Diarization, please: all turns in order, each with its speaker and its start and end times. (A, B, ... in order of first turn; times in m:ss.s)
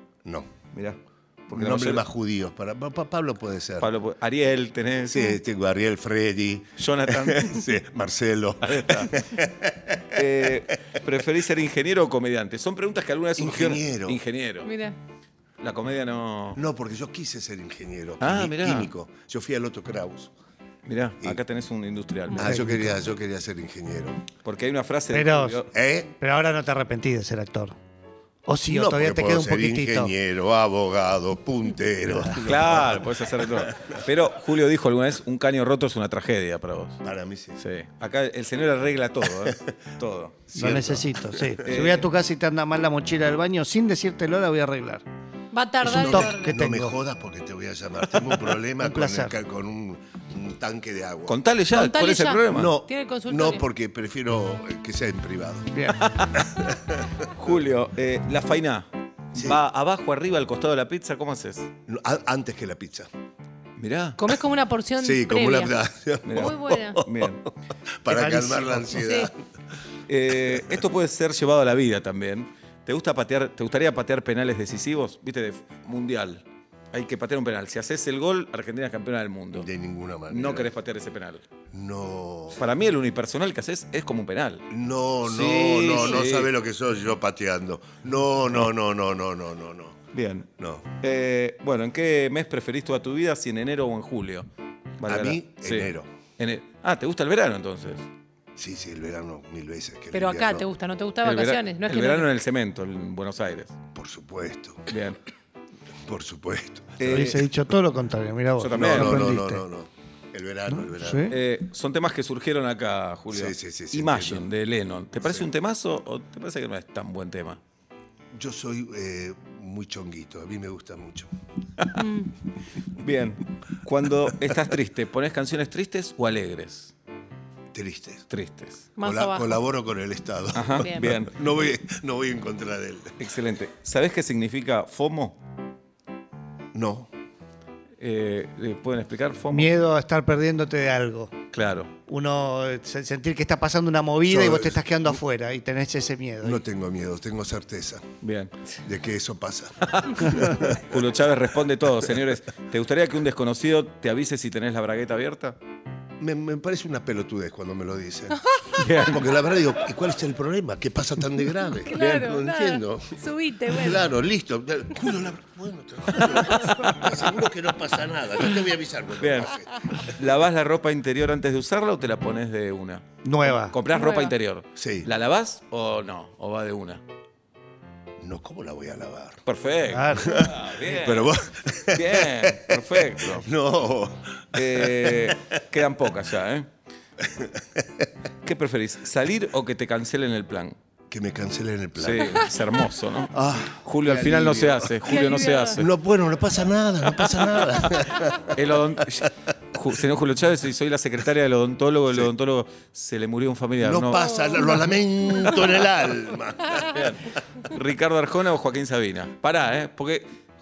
0:00.2-0:00.5 A
0:00.7-0:02.0 B
0:01.5-0:03.9 A
0:03.8-0:05.3 B
0:05.1-0:11.0 A
0:06.8-0:07.7 B
0:08.6-0:09.2 B
0:10.1-0:14.7 B
0:13.4-0:14.2 A
0:14.6-0:15.0 C
0:15.6-0:16.6 B
0:16.6-0:20.3 A
0:18.2-0:18.9 B
0:20.8-0:22.5 B
0:22.3-0:24.2 A
0:22.4-0:23.0 D
0:24.4-0:25.7 B
0:25.1-0:27.8 D
0:25.7-0:26.1 A
0:28.4-0:30.1 D
0:28.7-0:34.0 A
0:32.3-0:37.0 B
0:37.0-0:37.6 A
0:37.6-0:40.5 B
0:40.5-0:41.6 A
0:40.5-0:45.0 D
0:41.6-0:42.1 B
0:45.5-0:46.5 C
0:45.8-0:47.0 D
0:45.8-0:51.4 A
0:48.8-0:49.3 D
0:51.3-0:52.7 B
0:51.7-0:53.6 C
0:52.5-0:55.7 A
0:55.7-0:56.1 D
0:56.0-0:56.5 B
0:56.5-0:57.1 A
0:57.3-1:01.7 B
1:01.8-1:03.1 A
1:03.8-1:04.2 B
1:04.2-1:05.7 C
1:05.0-1:07.3 A
1:06.2-1:07.5 B
1:06.3-1:07.0 C
1:08.0-1:09.4 A
1:08.1-1:09.0 D
1:09.0-1:09.3 C
1:10.1-1:19.7 B
1:19.5-1:20.7 A
1:20.3-1:21.4 B
1:21.7-1:22.6 A
1:22.6-1:24.7 B
1:24.7-1:30.0 A
1:25.2-1:26.5 B
1:30.1-1:30.5 B
1:30.6-1:30.9 A
1:31.0-1:34.5 B
1:35.0-1:38.1 B
1:35.0-1:36.1 A
1:38.6-1:40.7 A
1:40.1-1:42.3 C
1:41.2-1:43.8 B
1:43.9-1:45.0 A
1:44.9-1:45.2 B
1:46.0-1:47.4 A
1:47.0-1:47.5 B
1:47.0-1:49.6 D
1:48.6-1:49.3 B
1:48.7-1:51.4 A
1:50.7-1:51.4 D
1:51.3-1:57.6 B
1:53.3-1:54.5 A
1:58.3-2:01.3 A
2:01.9-2:02.3 C
2:03.0-2:06.9 B
2:07.7-2:08.2 A
2:08.3-2:08.9 B
2:09.0-2:09.6 C
2:09.0-2:13.2 A
2:10.5-2:11.3 B
2:10.8-2:11.1 C
2:13.2-2:15.4 B
2:16.7-2:17.1 A
2:18.0-2:19.7 B
2:19.5-2:21.4 D
2:21.5-2:21.9 B
2:22.1-2:26.6 D
2:24.2-2:24.8 A
2:26.4-2:28.0 A
2:28.2-2:28.5 B
2:28.8-2:31.0 A
2:29.8-2:35.6 B
2:36.2-2:38.5 A
2:38.7-2:39.3 B
2:39.0-2:43.2 A
2:41.8-2:44.1 C
2:43.7-2:50.1 A
2:49.2-2:57.0 B
2:53.2-2:53.8 D
2:53.9-2:54.3 C
2:54.8-2:55.1 A
2:58.2-2:59.4 A
2:59.4-3:01.4 B
2:59.9-3:00.5 D
3:00.2-3:05.6 A
3:01.9-3:03.5 B
3:04.5-3:06.7 B
3:07.2-3:08.1 A
3:08.4-3:10.8 B
3:11.1-3:12.5 A
3:12.0-3:15.9 B
3:13.3-3:15.1 A
3:15.0-3:15.8 C
3:15.7-3:18.6 A
3:17.2-3:24.6 B
3:23.8-3:27.2 A
3:24.2-3:24.6 C
3:26.9-3:30.4 B